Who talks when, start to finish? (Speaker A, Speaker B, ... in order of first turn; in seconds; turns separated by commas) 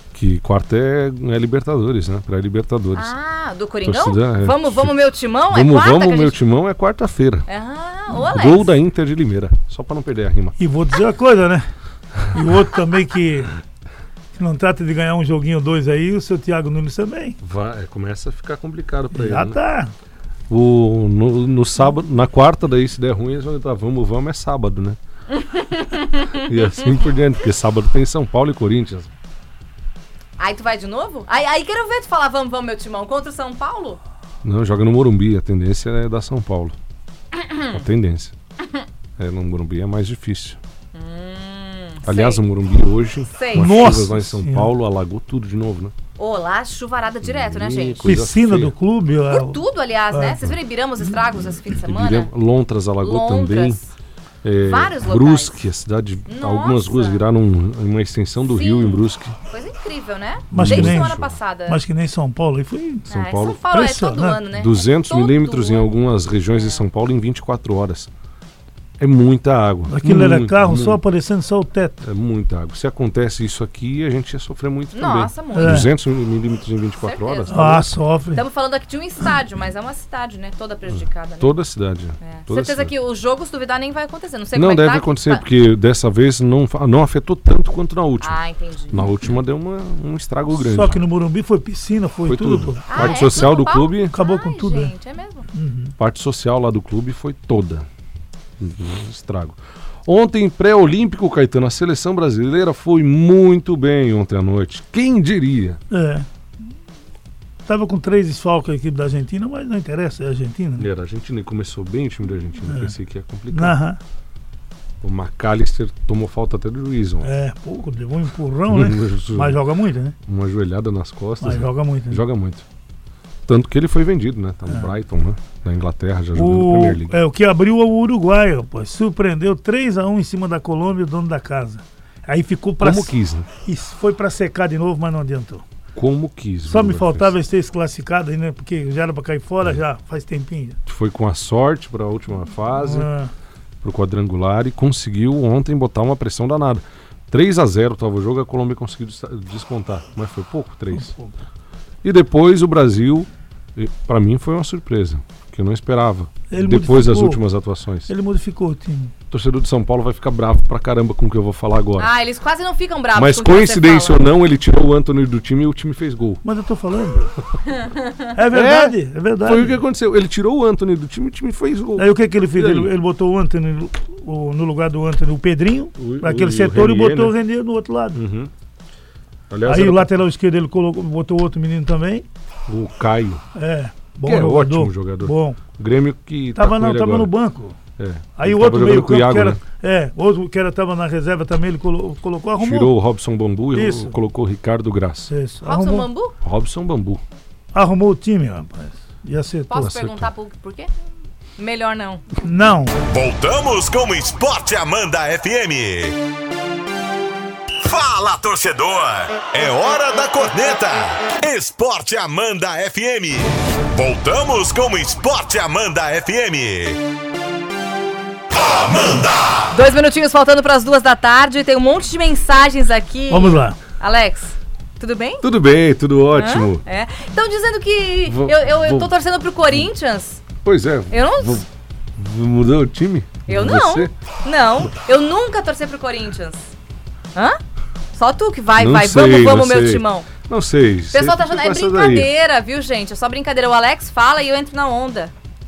Speaker A: 0.1-3.1, Speaker B: 3.0-6.4, Speaker A: 3.8-5.0, Speaker A: 5.5-7.5, Speaker B: 7.5-8.7, Speaker A: 8.1-10.6, Speaker C: 10.6-11.7, Speaker C: 12.3-13.5, Speaker C: 14.3-17.4, Speaker A: 17.4-19.6, Speaker C: 19.1-19.9, Speaker A: 20.5-25.0, Speaker B: 25.3-26.5, Speaker A: 26.3-29.1, Speaker B: 30.4-34.0, Speaker A: 34.4-36.8, Speaker B: 37.4-37.7, Speaker A: 37.7-38.3, Speaker A: 39.2-40.6, Speaker B: 40.9-42.4, Speaker A: 42.0-46.0, Speaker B: 43.3-43.9, Speaker C: 43.5-44.7, Speaker B: 46.2-48.1, Speaker A: 47.2-48.7, Speaker C: 48.0-50.4, Speaker B: 49.3-52.3, Speaker A: 51.8-53.8, Speaker B: 53.0-53.9, Speaker A: 54.4-59.4, Speaker B: 54.6-55.5, Speaker B: 56.3-57.2, Speaker B: 58.5-61.8, Speaker C: 60.5-63.1, Speaker A: 60.5-61.4, Speaker A: 63.1-63.6, Speaker B: 63.1-65.9, Speaker C: 63.7-64.4, Speaker A: 64.5-68.1, Speaker B: 66.5-66.8, Speaker A: 69.0-71.0, Speaker C: 69.9-72.1, Speaker A: 72.0-77.9, Speaker B: 74.9-75.9, Speaker C: 75.5-75.9, Speaker B: 77.0-77.8, Speaker C: 77.5-78.4, Speaker B: 78.3-81.6, Speaker A: 80.9-82.9, Speaker B: 82.2-85.4, Speaker A: 84.5-88.4, Speaker B: 88.2-89.1, Speaker A: 88.9-91.0, Speaker C: 90.6-93.5, Speaker A: 92.3-94.1, Speaker B: 92.9-95.5, Speaker C: 94.1-94.9, Speaker C: 95.5-96.0, Speaker A: 96.0-97.9, Speaker A: 98.6-105.8, Speaker C: 105.9-106.3, Speaker C: 107.7-110.9, Speaker A: 110.8-113.8, Speaker C: 112.7-112.9, Speaker C: 113.5-114.0, Speaker A: 115.0-117.3, Speaker C: 117.2-120.2, Speaker A: 118.7-119.6, Speaker A: 120.3-122.7, Speaker C: 121.4-122.2, Speaker A: 123.5-127.2, Speaker C: 124.7-124.9, Speaker C: 126.3-133.1, Speaker A: 132.8-133.5, Speaker C: 133.7-135.6, Speaker A: 135.9-137.3, Speaker C: 136.7-140.8, Speaker A: 140.9-143.1, Speaker C: 142.8-143.3, Speaker A: 143.8-151.2, Speaker C: 150.9-151.3, Speaker A: 152.0-158.1, Speaker C: 156.5-157.4, Speaker C: 158.1-159.1, Speaker A: 159.3-162.1, Speaker B: 162.0-164.2, Speaker A: 163.1-166.4, Speaker C: 166.4-167.3, Speaker C: 168.3-169.8, Speaker A: 168.5-172.9, Speaker C: 172.0-178.2, Speaker A: 176.0-177.4, Speaker A: 178.1-178.5, Speaker A: 179.5-180.1, Speaker C: 179.7-182.2, Speaker A: 182.7-183.4, Speaker C: 183.6-185.6, Speaker A: 184.2-187.3, Speaker C: 186.6-187.8, Speaker A: 188.0-189.6, Speaker C: 188.4-192.9, Speaker A: 192.6-195.3, Speaker C: 193.7-194.2, Speaker C: 195.3-196.1, Speaker B: 195.6-196.3, Speaker A: 196.4-197.2, Speaker C: 197.7-199.9, Speaker B: 199.7-200.9, Speaker A: 199.8-200.3, Speaker B: 201.6-202.3, Speaker C: 202.4-203.0, Speaker D: 203.1-206.2, Speaker D: 207.8-217.0, Speaker D: 218.5-219.7, Speaker B: 219.7-225.5, Speaker C: 223.3-223.8, Speaker A: 225.4-226.8, Speaker B: 226.3-230.4, Speaker A: 228.3-229.1, Speaker A: 230.6-234.1, Speaker B: 231.1-231.7, Speaker B: 233.5-236.7, Speaker B: 237.3-237.6, Speaker B: 238.2-240.3, Speaker A: 238.8-242.3, Speaker B: 241.1-245.3